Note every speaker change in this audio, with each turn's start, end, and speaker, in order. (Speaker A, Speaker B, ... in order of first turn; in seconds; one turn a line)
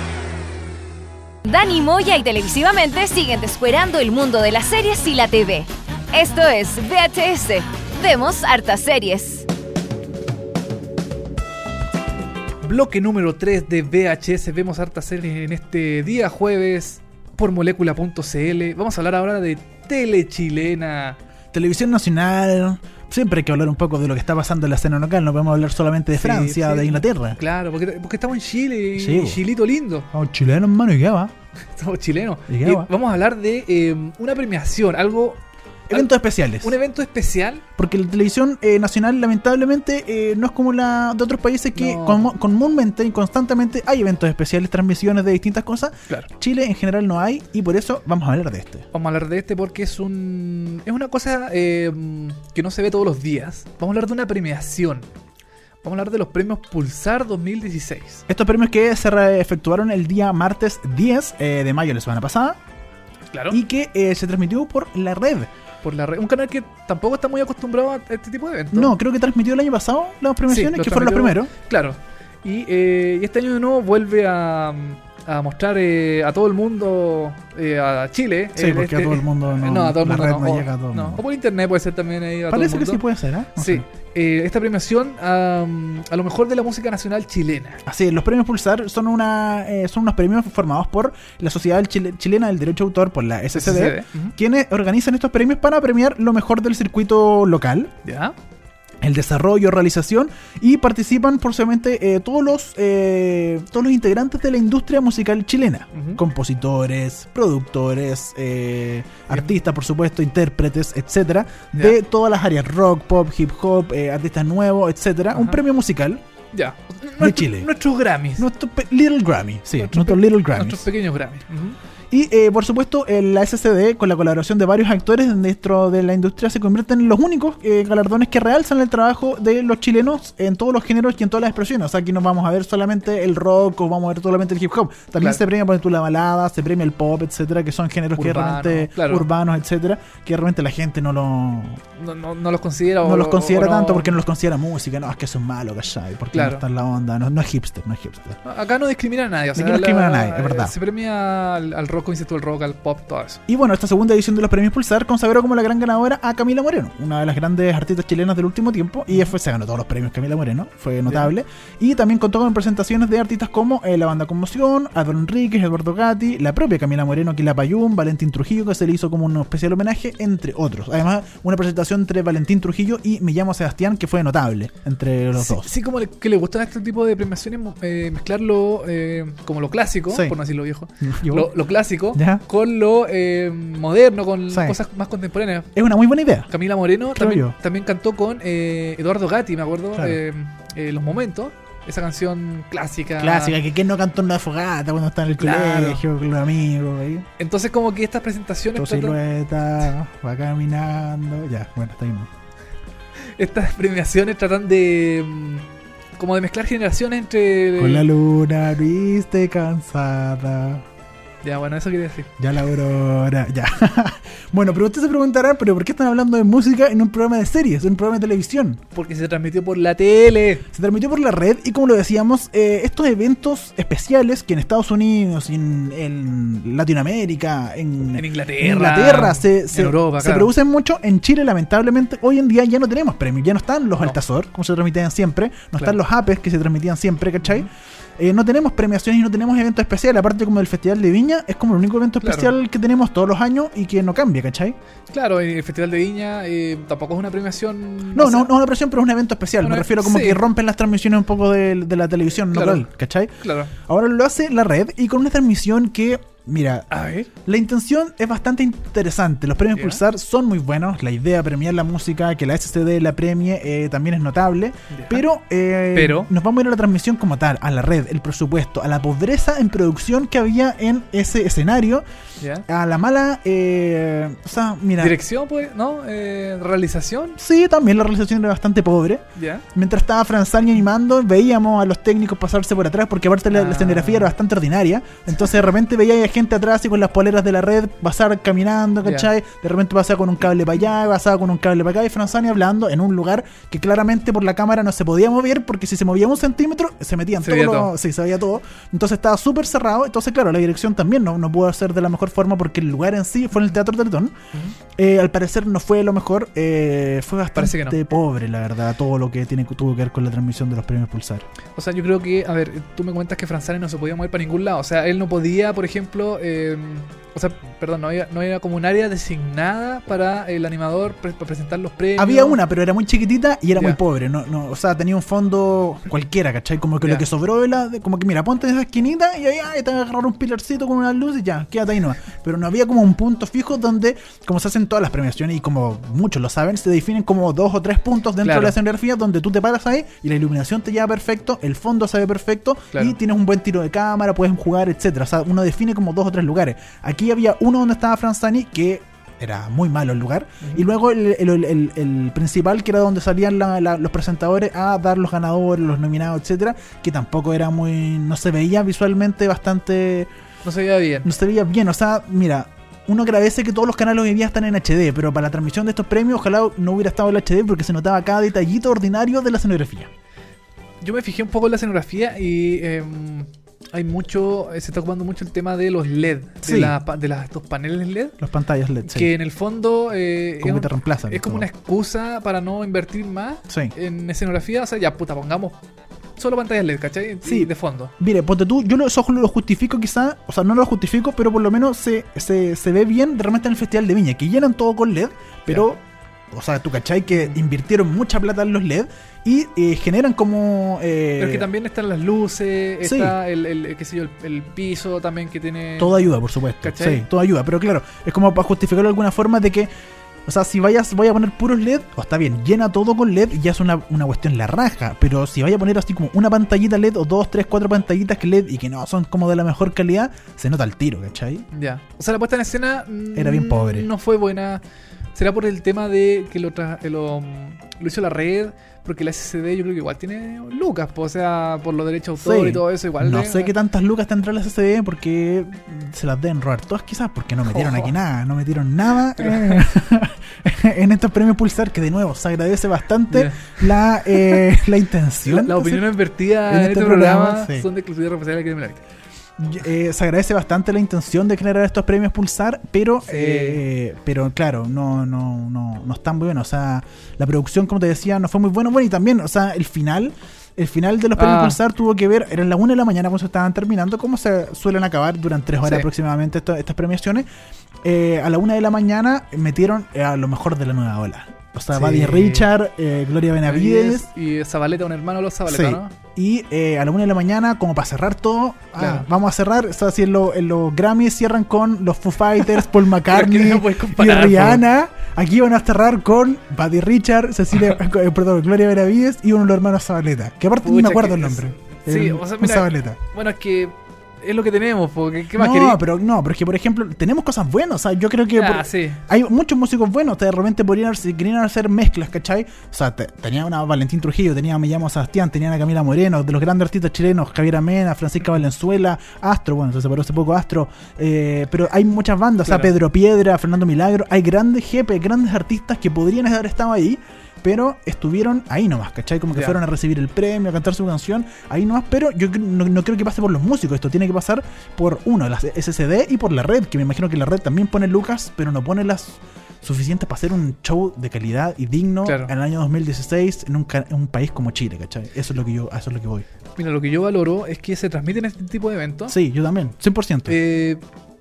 Speaker A: 1.4-9.5
Speaker B: 12.6-21.2
Speaker C: 21.5-27.4
Speaker B: 26.1-30.1
Speaker C: 28.9-29.4
Speaker C: 30.1-31.3
Speaker B: 31.7-35.4
Speaker C: 32.5-32.9
Speaker C: 35.9-36.7
Speaker B: 35.9-37.6
Speaker C: 37.8-48.9
Speaker B: 41.7-42.3
Speaker B: 48.9-55.1
Speaker B: 55.8-58.2
Speaker C: 58.3-62.6
Speaker B: 63.3-63.6
Speaker C: 63.5-65.5
Speaker B: 65.8-68.9
Speaker C: 68.7-71.5
Speaker B: 70.5-83.0
Speaker C: 78.5-81.2
Speaker C: 82.5-83.8
Speaker B: 83.6-87.8
Speaker C: 87.8-97.9
Speaker B: 93.5-94.3
Speaker B: 98.0-98.3
Speaker C: 99.0-116.2
Speaker B: 105.9-106.2
Speaker B: 115.3-115.6
Speaker B: 116.5-118.4
Speaker C: 117.2-117.7
Speaker C: 118.3-120.8
Speaker B: 119.8-121.8
Speaker C: 122.1-141.8
Speaker B: 138.1-139.2
Speaker B: 142.0-144.2
Speaker C: 143.0-148.4
Speaker B: 146.3-146.6
Speaker B: 148.4-153.4
Speaker C: 149.5-150.7
Speaker C: 153.5-175.7
Speaker B: 161.1-161.3
Speaker B: 175.3-185.7
Speaker C: 180.1-180.4
Speaker C: 181.0-181.5
Speaker C: 182.1-182.4
Speaker C: 184.5-184.8
Speaker C: 185.7-186.5
Speaker B: 186.5-193.6
Speaker C: 187.1-187.5
Speaker C: 193.2-197.3
Speaker B: 195.4-196.0
Speaker B: 197.4-199.2
Speaker C: 198.8-202.3
Speaker B: 203.3-205.7
Speaker B: 206.2-208.1
Speaker C: 207.8-210.8
Speaker B: 211.4-212.3
Speaker C: 212.4-218.8
Speaker B: 218.9-220.6
Speaker C: 220.7-244.8
Speaker B: 228.1-230.5
Speaker B: 237.4-237.7
Speaker B: 242.2-242.5
Speaker B: 245.1-248.5
Speaker C: 248.1-256.9
Speaker B: 249.6-250.4
Speaker B: 252.5-252.8
Speaker B: 253.4-253.7
Speaker B: 256.9-257.3
Speaker C: 257.4-272.0
Speaker B: 259.7-260.0
Speaker B: 264.9-265.2
Speaker B: 265.9-266.3
Speaker B: 272.4-272.6
Speaker C: 272.7-275.2
Speaker B: 275.0-277.4
Speaker C: 277.4-304.4
Speaker B: 279.4-279.6
Speaker B: 283.5-284.3
Speaker B: 289.0-289.3
Speaker B: 297.4-297.9
Speaker C: 305.0-311.4
Speaker B: 307.5-308.0
Speaker B: 311.8-322.6
Speaker C: 322.2-360.3
Speaker B: 338.4-338.7
Speaker B: 360.6-361.3
Speaker C: 361.2-370.1
Speaker B: 371.0-378.3
Speaker C: 376.6-376.9
Speaker C: 378.4-379.3
Speaker B: 379.0-385.8
Speaker C: 380.6-381.7
Speaker C: 383.7-383.9
Speaker B: 386.4-388.1
Speaker C: 387.4-396.0
Speaker C: 396.5-401.7
Speaker B: 397.3-397.6
Speaker B: 401.4-406.2
Speaker C: 403.0-403.4
Speaker C: 406.0-409.9
Speaker B: 406.8-407.2
Speaker C: 410.4-421.6
Speaker B: 421.7-424.8
Speaker C: 423.3-424.1
Speaker B: 425.3-433.7
Speaker C: 432.4-447.9
Speaker B: 437.6-438.1
Speaker B: 439.4-439.9
Speaker B: 443.3-444.6
Speaker B: 445.4-449.0
Speaker C: 449.6-467.5
Speaker B: 453.3-453.8
Speaker B: 461.4-461.8
Speaker B: 465.8-466.1
Speaker C: 468.0-474.3
Speaker B: 471.9-472.7
Speaker B: 473.6-476.1
Speaker C: 475.6-493.2
Speaker B: 479.0-479.3
Speaker B: 483.3-484.8
Speaker B: 490.8-496.0
Speaker C: 495.5-536.5
Speaker B: 498.5-499.2
Speaker B: 512.6-512.9
Speaker B: 532.2-532.5
Speaker B: 536.8-539.3
Speaker C: 539.3-540.6
Speaker B: 540.5-541.0